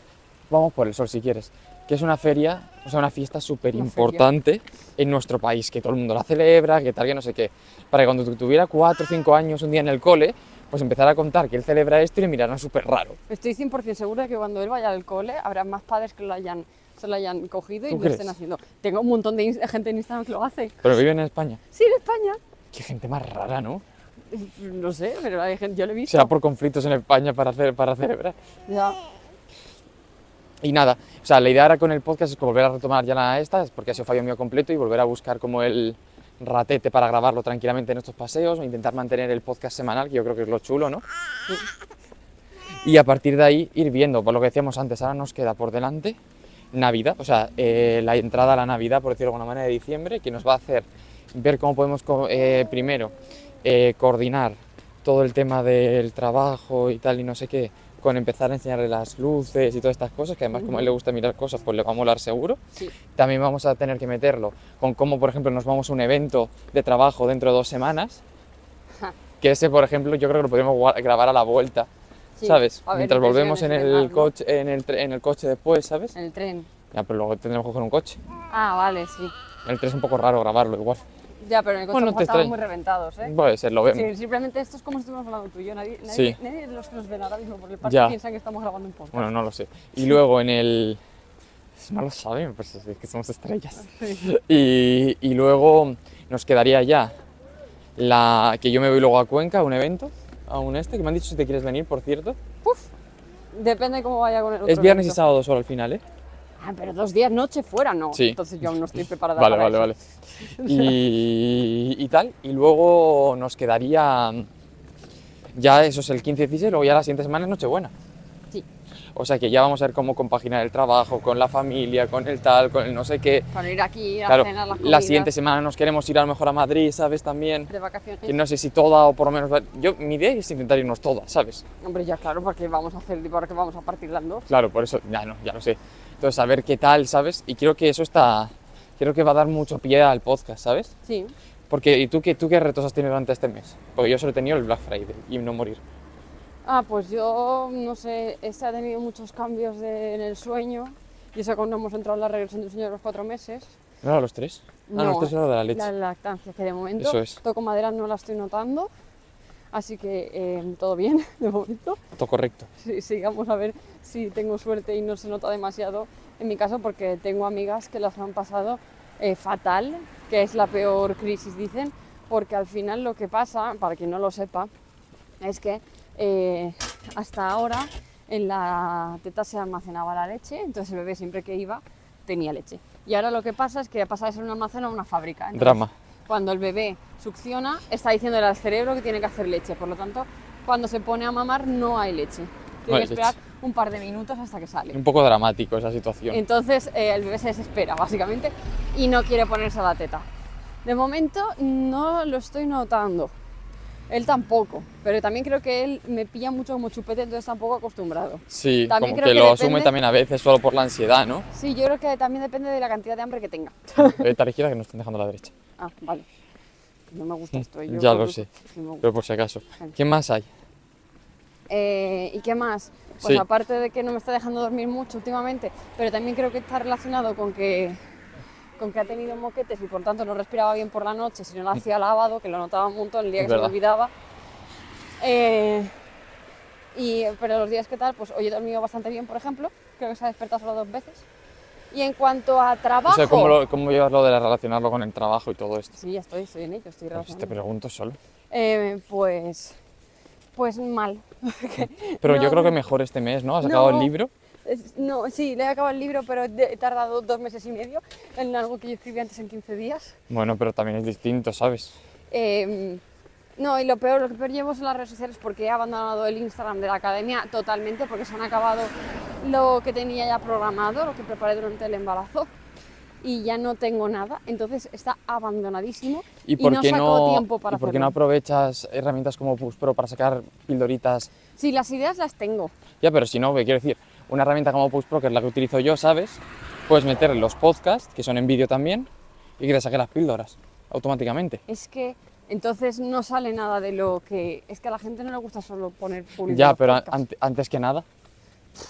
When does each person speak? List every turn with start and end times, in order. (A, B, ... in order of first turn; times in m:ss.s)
0:00.5-0:13.2 A
0:03.7-0:04.3 B
0:13.3-0:20.8 B
0:17.9-0:18.3 A
0:20.8-0:21.6 A
0:21.7-0:22.4 B
0:22.7-0:23.8 A
0:24.3-0:26.3 B
0:26.1-0:28.4 A
0:28.7-0:29.0 B
0:30.6-0:41.0 A
0:42.8-0:46.2 A
0:46.7-0:53.1 A
0:53.6-1:02.6 A
1:00.5-1:00.9 B
1:03.2-1:08.2 A
1:09.4-1:11.9 A
1:12.4-1:14.3 B
1:12.4-1:16.1 A
1:16.1-1:16.7 B
1:16.9-1:18.2 A
1:18.5-1:19.3 B
1:19.6-1:21.0 A
1:21.4-1:23.3 B
1:21.9-1:22.5 A
1:23.2-1:24.1 A
1:23.9-1:29.3 B
1:26.1-1:26.4 A
1:27.8-1:28.2 A
1:29.1-1:31.0 A
1:31.8-1:37.1 A
1:33.8-1:34.2 B
1:38.0-1:42.4 A
1:42.6-1:42.9 B
1:43.5-1:45.2 B
1:44.6-1:46.0 A
1:46.6-1:49.9 B
1:48.1-1:48.4 A
1:49.4-1:50.0 A
1:50.6-1:51.0 B
1:50.6-1:54.5 A
1:55.5-1:57.9 A
1:59.1-2:03.5 A
2:03.5-2:05.3 B
2:04.3-2:07.7 A
2:07.7-2:08.4 B
2:08.2-2:11.6 A
2:11.8-2:14.5 B
2:14.5-2:20.9 A
2:21.0-2:21.3 B
2:21.7-2:25.8 A
2:26.6-2:33.7 B
2:34.0-2:35.9 A
2:34.9-2:38.9 B
2:37.0-2:37.4 A
2:39.7-2:42.0 B
2:42.2-2:42.7 A
2:42.8-2:54.7 B
2:55.4-3:15.0 B
3:05.5-3:05.9 A
3:12.9-3:13.3 A
3:14.9-3:16.4 A
3:16.3-3:20.2 B
3:20.8-3:23.3 B
3:24.1-3:29.9 B
3:28.5-3:31.4 A
3:31.5-3:34.3 B
3:34.0-3:35.5 A
3:35.8-3:36.2 B
3:37.1-3:39.0 B
3:37.9-3:38.5 A
3:39.0-3:40.5 A
3:41.7-3:48.0 B
3:48.8-3:54.1 B
3:53.4-3:53.7 A
3:55.2-3:55.9 B
3:56.9-4:01.2 B
4:01.9-4:03.6 B
4:03.0-4:05.9 A
4:05.9-4:07.5 B
4:07.1-4:08.2 A
4:08.5-4:09.8 B
4:10.6-4:12.7 B
4:12.2-4:14.3 A
4:13.6-4:14.1 B
4:14.6-4:20.1 B
4:20.3-4:21.9 A
4:22.3-4:23.0 B
4:23.6-4:32.5 B
4:33.2-4:38.1 B
4:36.4-4:41.3 A
4:41.6-4:42.7 B
4:43.0-4:49.1 A
4:49.6-4:51.6 A
4:51.7-4:57.2 B
4:56.4-4:58.0 A